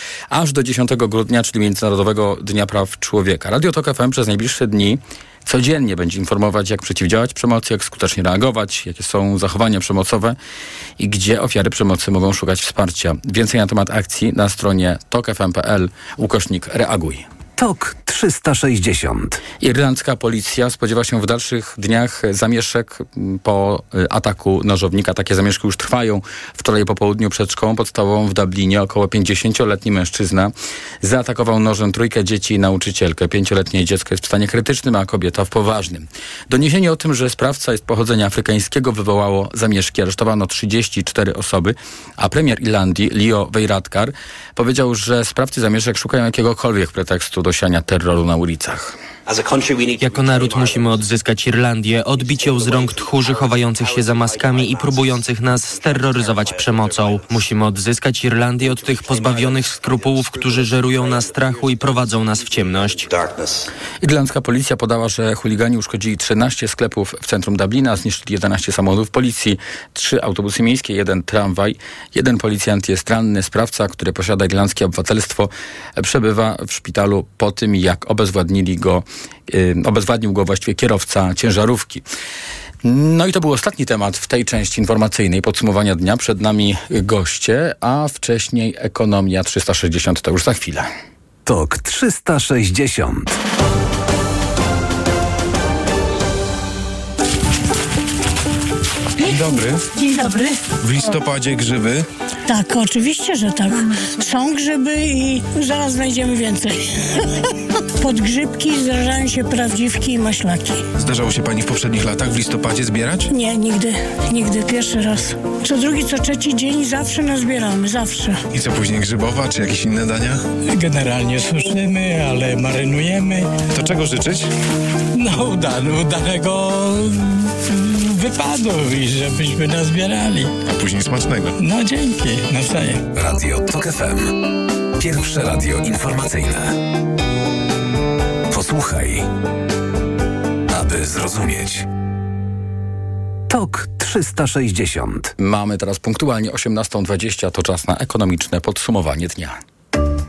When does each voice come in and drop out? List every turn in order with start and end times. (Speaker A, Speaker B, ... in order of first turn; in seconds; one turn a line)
Speaker A: 0.3-10.4
Speaker A: 11.0-17.2
Speaker B: 17.6-19.4
Speaker A: 19.6-49.0
Speaker C: 49.8-63.1
Speaker A: 64.0-82.0
Speaker A: 82.8-90.9
Speaker B: 91.5-93.4
Speaker D: 99.3-99.8
Speaker E: 100.0-100.4
Speaker D: 100.8-102.1
Speaker E: 102.5-106.8
Speaker E: 108.0-110.8
Speaker D: 111.0-113.3
Speaker E: 113.3-118.4
Speaker D: 118.5-120.5
Speaker D: 123.7-124.5
Speaker D: 130.7-131.5
Speaker B: 133.1-134.3
Speaker B: 135.0-136.7
Speaker B: 138.5-139.3
Speaker B: 140.7-141.9
Speaker B: 143.5-145.3
Speaker A: 145.4-149.6